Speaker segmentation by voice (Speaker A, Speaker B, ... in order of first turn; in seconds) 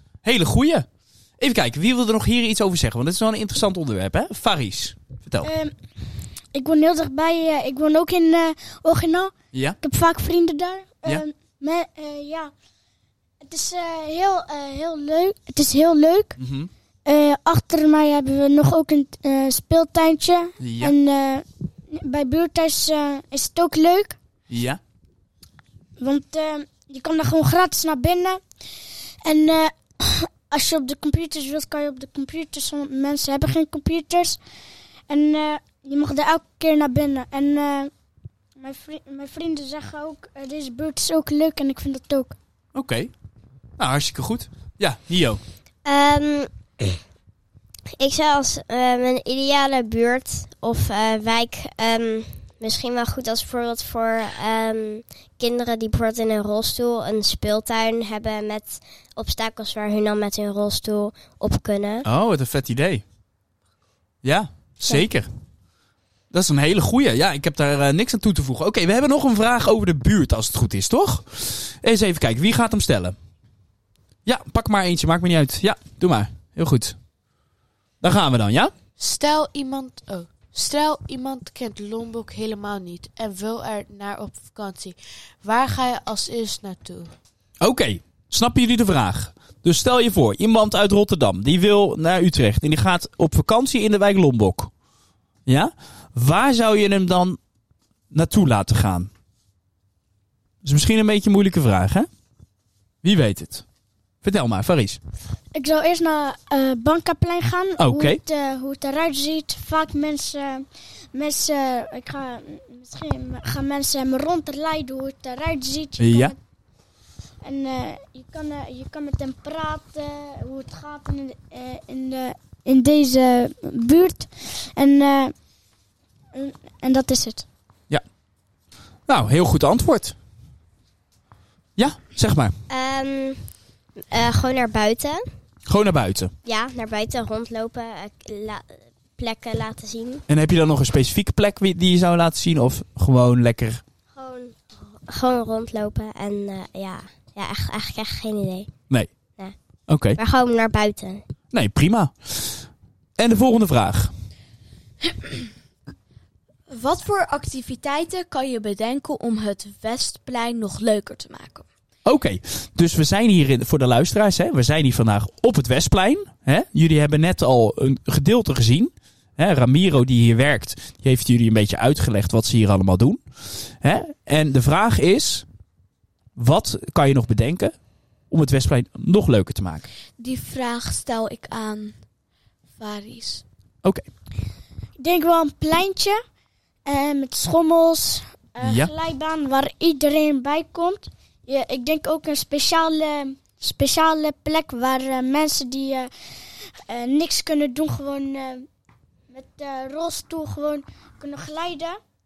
Speaker A: 0.2-5.5, 9.5-9.8, 16.4-16.7, 20.6-20.9, 24.5-24.8, 42.7-43.1, 43.8-45.4, 62.0-63.0, 64.2-65.3, 66.3-73.2, 74.2-77.0, 78.0-78.7, 87.6-94.7, 95.5-97.4, 98.1-99.1, 100.6-102.1, 103.0-103.7, 104.2-105.0, 107.8-108.2, 116.0-116.3, 129.1-130.2, 131.8-132.6, 135.7-136.3, 140.3-143.8, 148.9-150.2, 151.5-154.1, 162.0-175.5, 176.4-177.8, 178.3-179.9, 188.6-188.9
Speaker B: 5.4-12.5, 13.4-16.4, 17.1-24.2, 26.0-34.4, 35.1-37.9, 38.6-42.4, 105.5-116.4, 117.4-125.4, 126.3-127.5, 185.0-186.2, 186.8-198.7, 199.3-202.0
Speaker C: 45.9-47.0, 48.0-62.1, 132.7-133.6, 134.1-135.3, 136.4-140.2, 144.1-148.8, 149.4-151.2
Speaker D: 79.0-87.1
Speaker E: 156.7-161.7, 180.2-182.0, 182.8-183.4